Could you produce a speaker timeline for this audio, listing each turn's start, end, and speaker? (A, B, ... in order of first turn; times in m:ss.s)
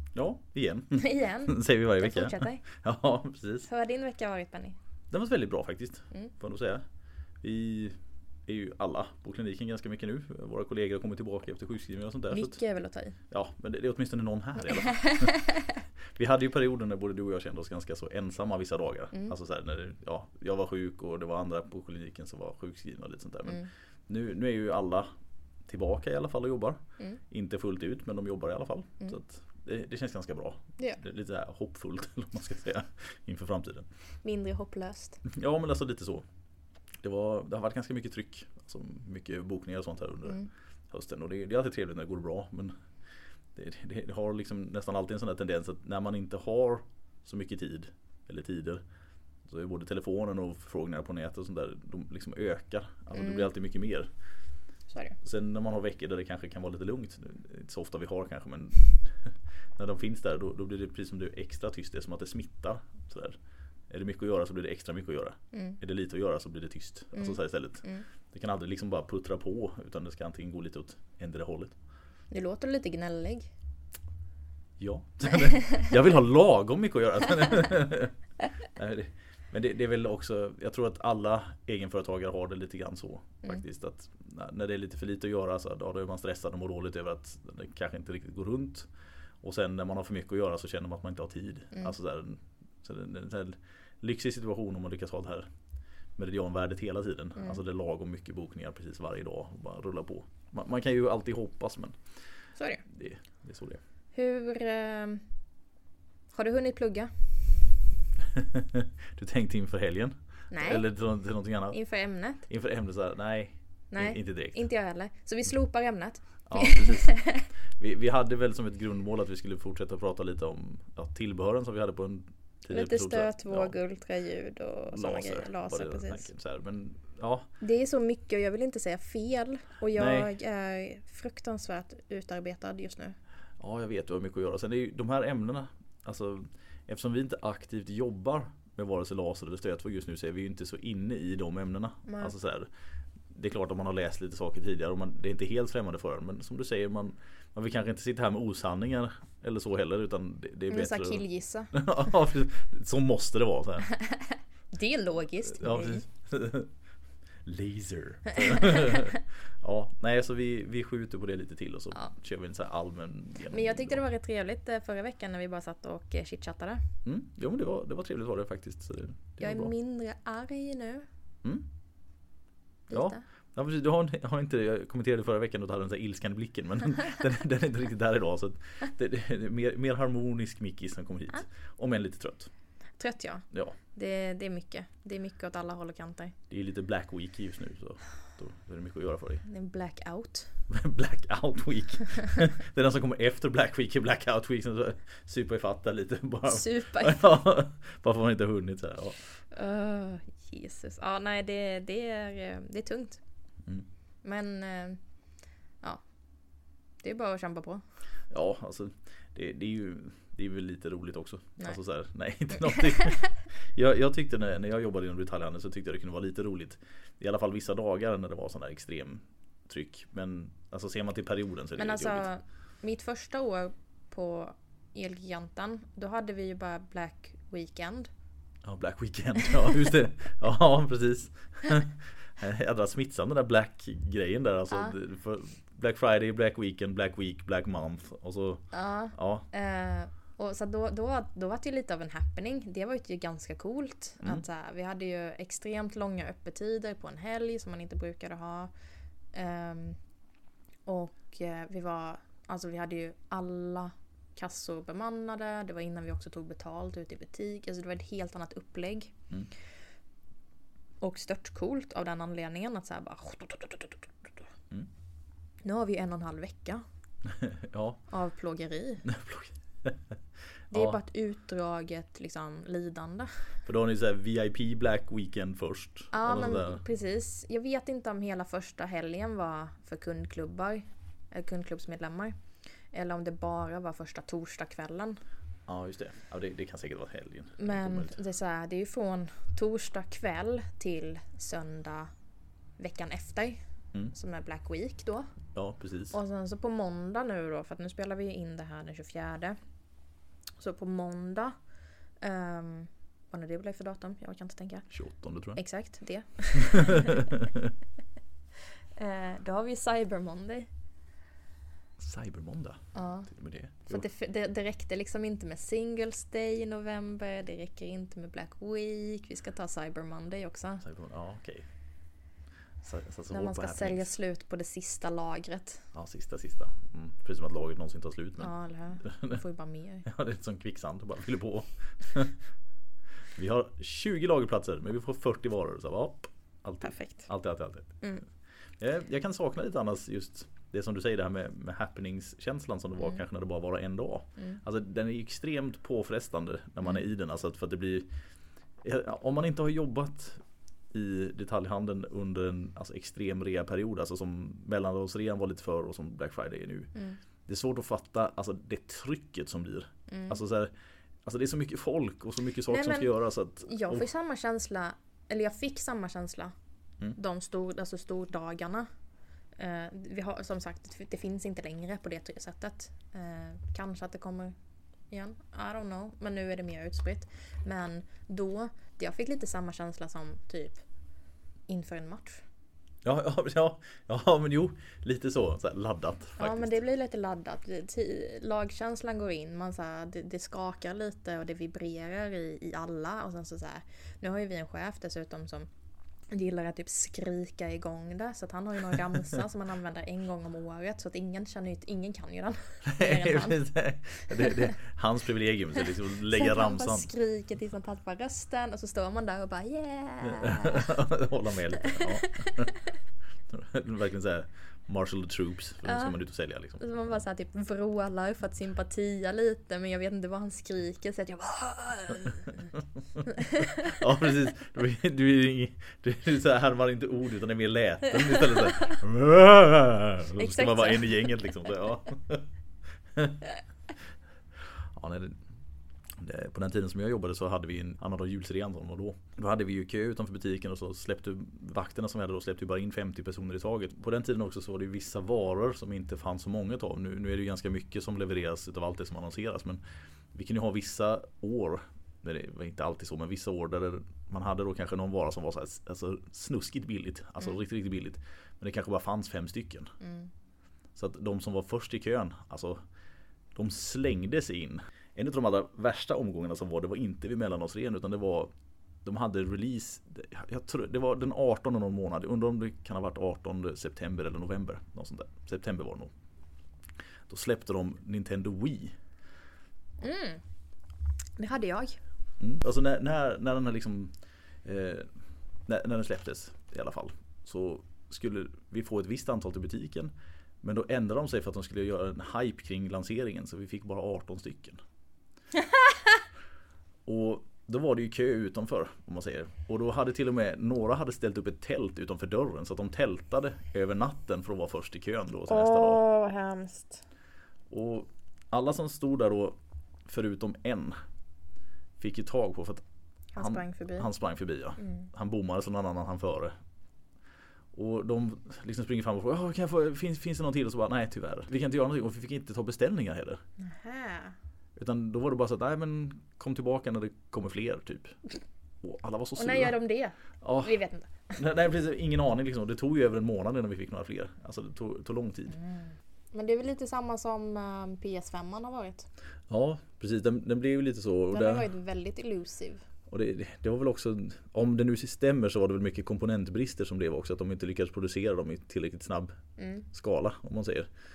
0:00.1-0:03.7 A
0:01.0-0:02.6 B
0:03.7-0:04.8 B
0:05.1-0:06.8 A
0:07.4-0:12.6 A
0:12.3-0:13.2 B
0:13.3-0:15.4 A
0:14.8-0:15.8 B
0:16.1-0:25.1 A
0:23.5-0:23.7 B
0:25.6-0:33.9 A
0:34.2-0:35.2 B
0:35.2-0:36.2 A
0:37.0-0:42.9 A
0:43.5-0:48.8 A
0:49.4-0:54.1 A
0:53.2-0:53.5 B
0:54.9-0:55.2 B
0:55.2-1:11.8 A
1:05.5-1:05.8 B
1:07.1-1:08.1 B
1:12.3-1:13.5 B
1:14.8-1:35.5 A
1:36.1-1:43.8 A
1:42.6-1:42.8 B
1:44.1-1:45.2 B
1:46.3-1:47.6 B
1:48.3-1:54.6 A
1:50.5-1:50.9 B
1:51.7-1:52.5 B
1:53.9-1:57.5 B
1:56.5-2:03.8 A
2:02.7-2:06.3 B
2:04.9-2:07.5 A
2:07.6-2:13.2 B
2:09.9-2:10.3 A
2:13.6-2:22.7 A
2:22.1-2:22.3 B
2:23.3-2:33.9 A
2:30.7-2:31.8 B
2:33.9-2:36.0 B
2:35.5-2:36.7 A
2:37.4-2:44.0 A
2:38.5-2:38.9 B
2:43.5-2:46.8 B
2:47.0-2:49.7 A
2:49.4-2:51.1 B
2:52.9-3:02.5 A
2:52.9-2:53.2 B
3:02.9-3:06.4 B
3:03.5-3:03.8 A
3:06.5-3:09.4 A
3:09.4-3:10.6 B
3:10.7-3:19.2 A
3:16.5-3:17.3 B
3:19.5-3:23.2 B
3:24.2-3:25.0 B
3:25.8-3:26.1 B
3:27.0-3:27.8 B
3:28.3-3:42.3 A
3:32.6-3:33.3 B
3:41.8-3:48.1 B
3:48.6-3:59.5 A
3:58.7-4:08.8 B
4:09.3-4:10.0 B
4:10.8-4:19.1 B
4:21.0-4:24.3 B
4:25.6-4:26.8 B
4:27.3-4:28.0 A
4:28.1-4:29.1 B
4:29.0-4:30.2 A
4:30.7-4:31.0 A
4:30.7-4:33.3 B
4:33.6-4:36.8 A
4:36.1-4:42.3 B
4:42.9-4:45.2 B
4:45.7-4:48.2 A
4:47.6-4:52.1 B
4:52.8-4:55.3 B
4:55.5-4:56.2 A
4:56.1-4:59.6 B
5:00.6-5:01.5 B
5:02.2-5:04.9 B
5:04.9-5:05.6 A
5:05.5-5:07.2 B
5:09.0-5:10.7 B
5:12.0-5:14.0 A
5:12.9-5:20.8 B
5:20.8-5:21.7 A
5:22.8-5:24.1 A
5:23.3-5:25.8 B
5:25.9-5:29.4 A
5:28.4-5:30.1 B
5:30.0-5:32.4 A
5:33.3-5:48.1 A
5:36.8-5:37.3 B
5:38.0-5:38.2 B
5:48.8-5:56.9 A
5:56.9-5:57.2 B
5:57.4-6:00.7 A
6:00.1-6:00.4 B
6:01.2-6:04.0 A
6:02.7-6:03.1 B
6:03.6-6:06.5 B
6:07.1-6:08.9 B
6:09.6-6:14.5 B
6:15.1-6:20.8 B
6:21.7-6:22.4 B
6:23.0-6:26.7 A
6:26.4-6:35.7 B
6:36.3-6:43.6 B
6:42.8-6:47.1 A
6:44.2-6:44.7 B
6:46.3-6:51.0 B
6:50.3-6:52.7 A
6:51.8-6:52.7 B
6:53.5-6:57.2 A
6:55.8-6:56.2 B
6:56.8-7:02.7 B
7:03.4-7:03.9 B
7:03.9-7:12.4 A
7:10.3-7:11.4 B
7:13.1-7:13.4 A
7:14.6-7:15.4 A
7:16.2-7:29.8 A
7:30.3-7:39.9 A
7:40.0-7:40.3 B
7:40.9-7:42.8 A
7:43.5-7:48.5 A
7:49.0-7:56.1 A
7:57.3-7:59.0 A
8:00.0-8:00.4 B
8:01.4-8:02.0 B
8:02.4-8:14.8 A
8:17.1-8:26.0 A
8:25.5-8:27.0 B
8:27.7-8:31.0 A
8:32.0-8:32.8 A
8:33.3-8:34.1 B
8:33.4-8:36.5 A
8:34.8-8:35.1 B
8:37.7-8:43.4 A
8:43.6-8:44.4 B
8:44.8-8:48.2 A
8:48.8-8:49.7 A
8:49.4-8:51.4 B
8:50.4-8:50.7 A
8:51.3-8:55.6 A
8:55.5-8:59.1 B
8:59.5-9:01.7 A
9:01.3-9:02.8 B
9:03.1-9:10.9 A
9:09.6-9:09.9 B